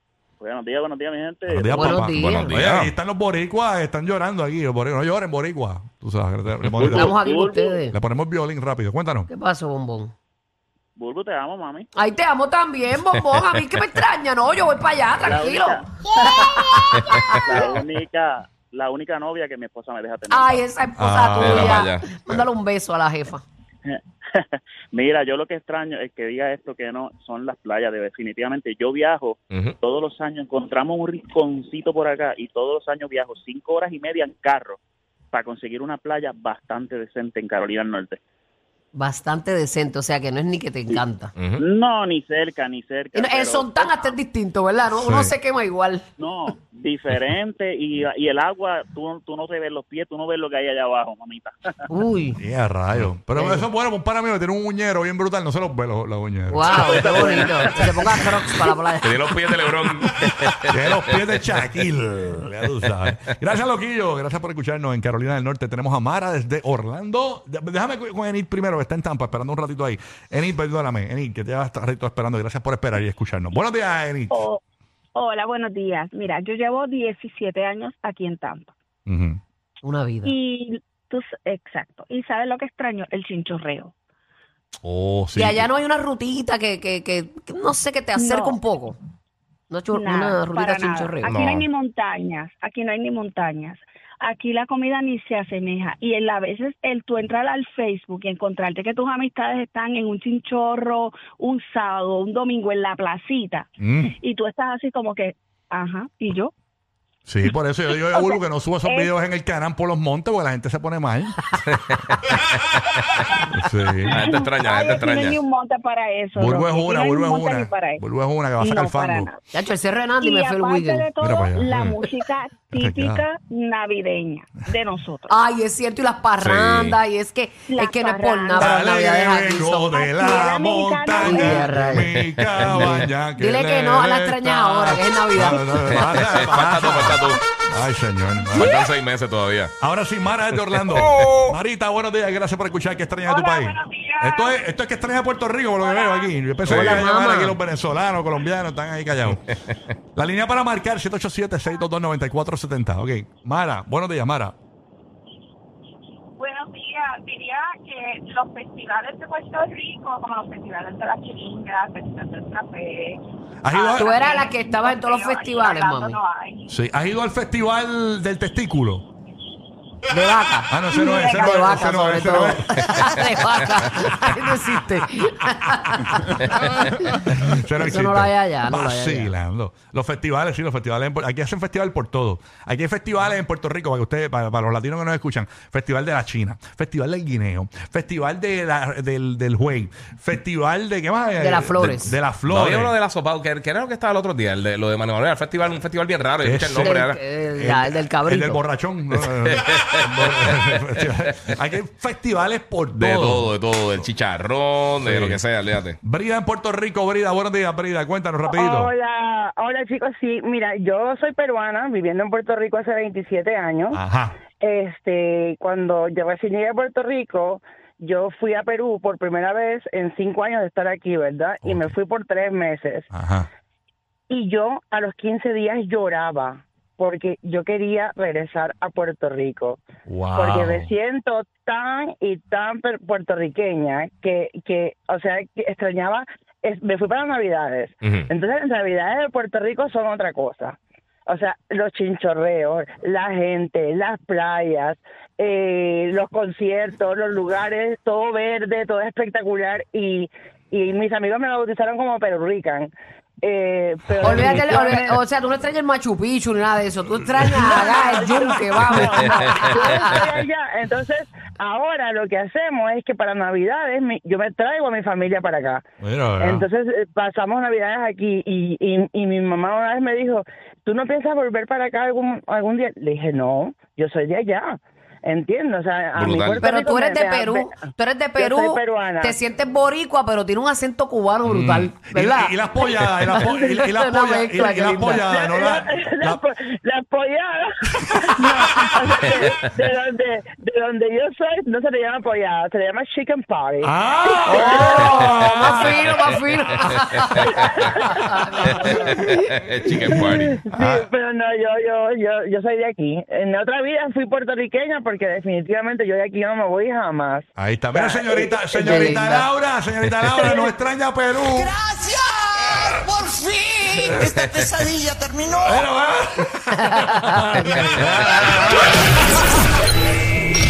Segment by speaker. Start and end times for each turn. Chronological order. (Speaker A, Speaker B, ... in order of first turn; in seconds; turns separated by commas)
Speaker A: 0.4-2.1, Speaker B: 1.5-7.2, Speaker C: 1.7-2.6, Speaker D: 2.0-2.9, Speaker C: 6.8-8.0, Speaker A: 6.8-7.8, Speaker B: 7.9-9.3, Speaker C: 9.3-10.1, Speaker A: 11.0-11.9, Speaker C: 12.0-17.8, Speaker A: 15.3-16.6, Speaker A: 17.4-20.6, Speaker C: 20.3-23.4, Speaker B: 21.0-21.7, Speaker D: 21.4-22.4, Speaker A: 23.9-34.8, Speaker A: 35.3-38.2, Speaker C: 38.9-41.3, Speaker A: 41.6-44.1, Speaker C: 43.1-46.0, Speaker B: 44.9-45.3, Speaker A: 46.2-51.7, Speaker C: 51.9-52.4, Speaker B: 52.4-57.7, Speaker C: 53.4-53.7, Speaker C: 56.5-59.5, Speaker A: 56.9-57.9, Speaker D: 59.0-61.3, Speaker B: 60.6-74.5, Speaker E: 74.3-74.6, Speaker E: 75.2-78.7, Speaker B: 79.1-79.4, Speaker C: 79.8-80.3, Speaker E: 80.3-83.9, Speaker B: 84.8-85.7, Speaker C: 85.3-89.0, Speaker E: 88.2-88.5, Speaker C: 89.7-91.4, Speaker E: 89.9-103.7, Speaker D: 91.2-91.7, Speaker B: 103.8-104.2, Speaker E: 104.2-106.5, Speaker B: 107.3-111.4, Speaker E: 108.0-109.1, Speaker D: 111.9-112.8, Speaker B: 113.5-114.3, Speaker D: 114.1-115.4, Speaker E: 114.2-119.3, Speaker B: 116.3-119.3, Speaker C: 119.5-121.2, Speaker E: 120.2-125.3, Speaker B: 121.2-121.8, Speaker D: 121.7-122.0, Speaker B: 122.7-123.3, Speaker C: 125.3-130.2, Speaker D: 126.4-127.0, Speaker E: 127.7-128.6, Speaker B: 128.6-138.9, Speaker E: 130.3-131.3, Speaker C: 131.2-135.9, Speaker D: 132.2-133.0, Speaker D: 135.9-137.4, Speaker D: 138.5-139.7, Speaker B: 139.8-149.4, Speaker D: 140.9-141.3, Speaker E: 143.4-144.4, Speaker D: 146.6-147.1, Speaker C: 146.7-147.6, Speaker B: 150.2-154.6, Speaker E: 156.4-166.6, Speaker B: 163.6-164.2, Speaker C: 164.0-166.2, Speaker B: 166.7-169.1, Speaker C: 170.1-176.6, Speaker B: 170.7-172.8, Speaker E: 170.9-171.8, Speaker B: 176.8-193.0, Speaker C: 177.8-179.3, Speaker C: 191.4-192.2, Speaker D: 192.5-197.2, Speaker B: 196.4-197.0, Speaker C: 196.7-198.6, Speaker B: 197.5-203.5, Speaker D: 199.5-200.5, Speaker D: 202.9-206.0, Speaker B: 205.0-205.5, Speaker B: 206.0-208.9, Speaker F: 208.5-214.0, Speaker B: 213.9-214.4, Speaker F: 214.6-223.1, Speaker B: 221.6-221.9, Speaker B: 223.1-223.5, Speaker F: 224.3-229.8, Speaker B: 230.1-230.9, Speaker F: 230.3-255.2, Speaker C: 254.2-260.2, Speaker F: 257.4-265.8, Speaker B: 266.0-266.7, Speaker F: 266.4-279.4, Speaker D: 276.1-276.7, Speaker C: 276.6-282.6, Speaker B: 281.4-286.4, Speaker F: 282.8-283.9, Speaker C: 283.3-285.3, Speaker F: 284.6-296.3, Speaker B: 293.8-296.0, Speaker C: 294.5-299.5, Speaker F: 297.4-299.2, Speaker D: 299.3-300.6, Speaker F: 300.1-309.4, Speaker B: 300.7-301.1, Speaker B: 307.6-311.8, Speaker C: 308.8-309.4, Speaker G: 311.8-312.1, Speaker G: 313.1-313.9, Speaker B: 314.1-314.4, Speaker D: 314.3-314.9, Speaker G: 314.4-315.5, Speaker B: 315.6-319.0